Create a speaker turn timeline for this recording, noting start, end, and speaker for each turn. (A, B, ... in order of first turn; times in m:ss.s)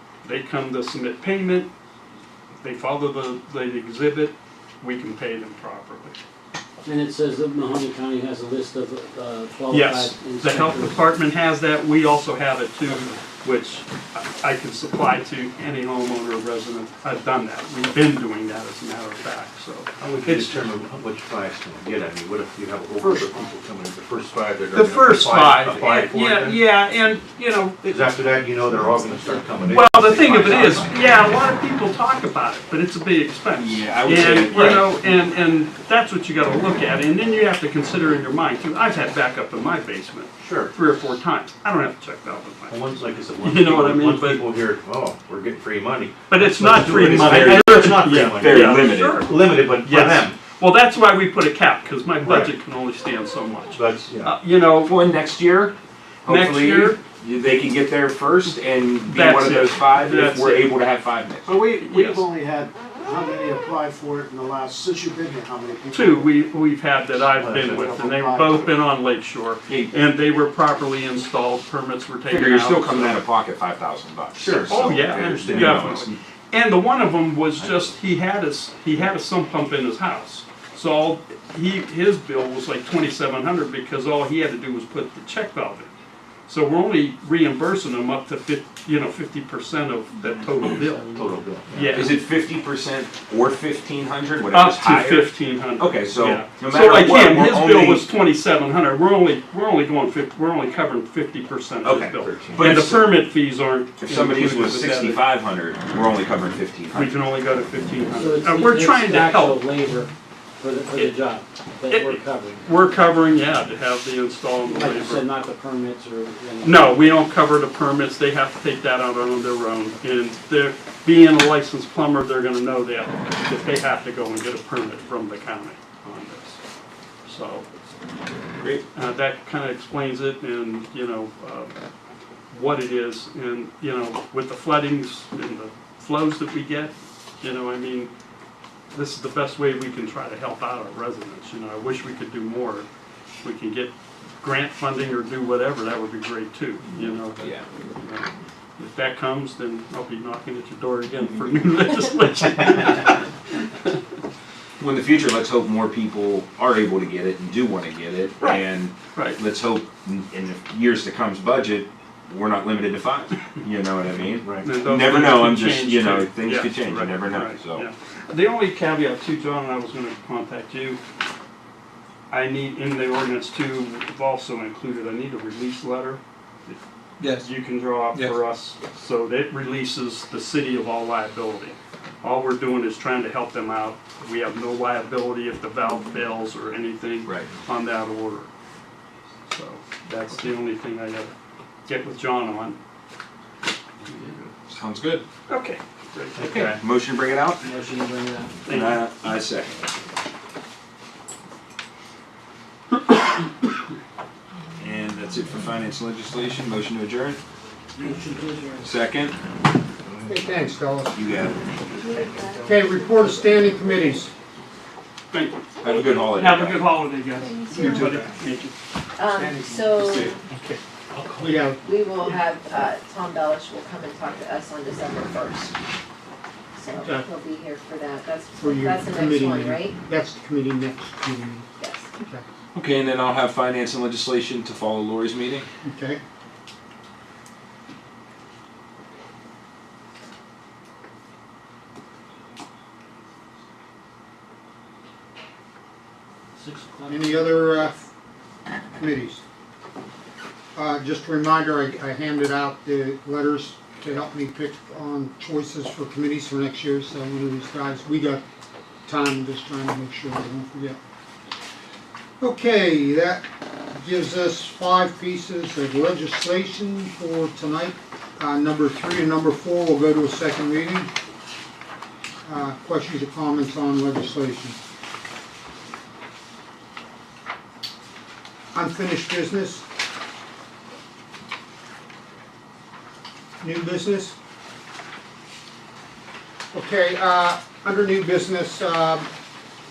0:00.2-0:01.7 A
0:02.6-0:06.2 A
0:06.8-0:11.0 B
0:09.7-0:20.7 A
0:20.0-0:26.6 C
0:24.7-0:27.8 A
0:27.8-0:31.0 C
0:29.7-0:42.8 A
0:33.6-0:34.9 D
0:34.4-0:34.9 C
0:40.4-0:40.7 C
0:42.7-0:50.4 C
0:43.4-0:44.4 A
0:46.3-0:49.3 A
0:46.8-0:49.3 D
0:49.8-0:55.0 A
0:52.2-0:52.5 C
0:53.7-0:54.4 C
0:54.7-1:01.7 D
0:56.3-0:57.0 A
0:59.1-1:00.7 A
1:01.8-1:02.3 A
1:03.0-1:05.3 E
1:05.9-1:13.2 A
1:07.5-1:07.9 C
1:09.7-1:09.9 D
1:12.3-1:16.2 D
1:14.4-1:15.9 C
1:14.7-1:25.9 A
1:17.6-1:17.9 C
1:26.5-1:31.1 A
1:30.6-1:31.3 B
1:30.6-1:32.0 C
1:31.7-1:32.2 A
1:31.9-1:38.1 D
1:34.5-1:45.2 A
1:41.8-1:43.3 D
1:44.0-1:47.2 D
1:46.9-1:49.6 A
1:48.1-1:52.7 B
1:51.9-1:55.2 A
1:54.6-1:57.0 B
1:56.6-2:06.6 A
2:07.3-2:07.7 A
2:08.9-2:11.7 A
2:12.5-2:18.1 A
2:18.9-2:22.9 A
2:23.4-2:33.2 A
2:27.4-2:27.6 D
2:34.8-2:47.9 D
2:39.1-2:39.4 A
2:44.4-2:44.7 C
2:44.6-2:51.0 A
2:52.3-3:08.5 A
3:07.2-3:07.5 D
3:09.5-3:11.3 A
3:11.9-3:12.8 A
3:14.1-3:14.4 A
3:14.7-3:15.2 D
3:15.5-3:16.7 A
3:16.4-3:16.8 C
3:16.5-3:17.6 D
3:17.6-3:18.6 B
3:18.7-3:19.0 A
3:18.7-3:19.8 D
3:24.8-3:27.4 D
3:28.0-3:28.9 B
3:28.8-3:29.4 D
3:30.2-3:31.2 F
3:31.1-3:31.6 D
3:31.9-3:33.9 G
3:32.6-3:34.3 F
3:35.3-3:38.8 A
3:35.8-3:36.8 D
3:37.4-3:38.4 G
3:37.8-3:38.3 D
3:39.2-3:40.3 G
3:40.5-3:40.8 A
3:41.4-3:41.8 F
3:41.8-3:45.7 G
3:46.8-3:50.0 G
3:47.0-3:47.3 F
3:48.6-3:52.4 F
3:51.8-3:52.1 G
3:52.7-3:55.7 D
3:55.8-3:56.2 F
4:06.6-4:07.8 B
4:07.1-4:08.0 F
4:09.0-4:09.4 F
4:10.8-4:18.4 F
4:19.1-4:21.0 F
4:22.4-4:31.1 F
4:32.4-4:34.8 F
4:38.7-4:39.8 F
4:43.6-4:44.4 F
4:46.7-4:49.3 F